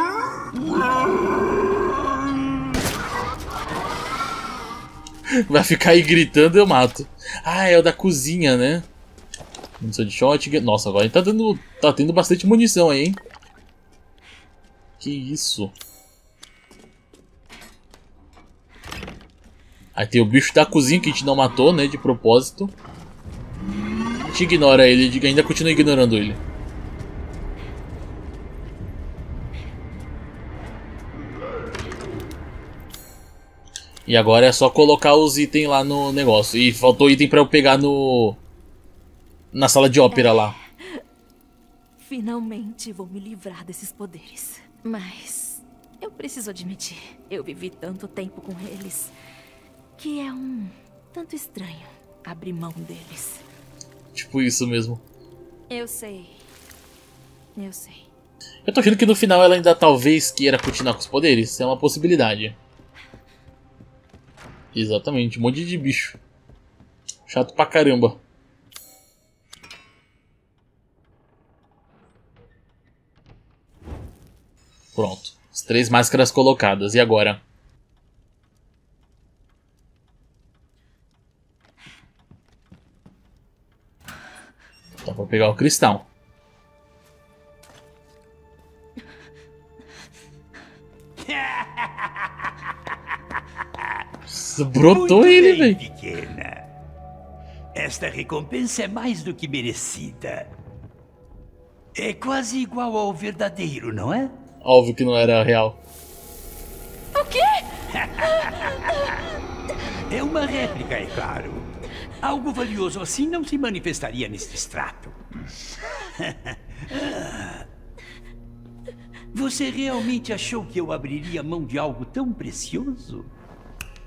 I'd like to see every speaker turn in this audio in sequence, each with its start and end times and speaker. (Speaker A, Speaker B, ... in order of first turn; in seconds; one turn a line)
Speaker A: 5.5-8.9
Speaker A: 9.8-13.2
Speaker A: 15.0-15.7
Speaker A: 19.9-22.7
Speaker A: 24.2-26.4
Speaker A: 34.0-38.4
Speaker A: 39.5-40.5
Speaker B: 40.1-41.0
Speaker B: 42.0-49.1
Speaker B: 50.0-53.4
Speaker A: 54.1-55.0
Speaker B: 55.7-56.4
Speaker B: 57.5-58.1
Speaker A: 58.6-62.5
Speaker A: 64.7-66.2
Speaker A: 67.2-68.2
Speaker A: 74.9-77.4
Speaker A: 85.0-86.1
Speaker C: 91.2-92.3
Speaker A: 94.3-95.8
Speaker C: 94.8-96.6
Speaker C: 97.7-100.5
Speaker C: 101.9-104.3
Speaker A: 104.6-105.8
Speaker B: 107.1-107.7
Speaker C: 107.9-108.8
Speaker B: 108.2-109.2
Speaker C: 110.1-111.7
Speaker C: 112.2-115.2
Speaker C: 116.0-117.6
Speaker C: 119.3-123.3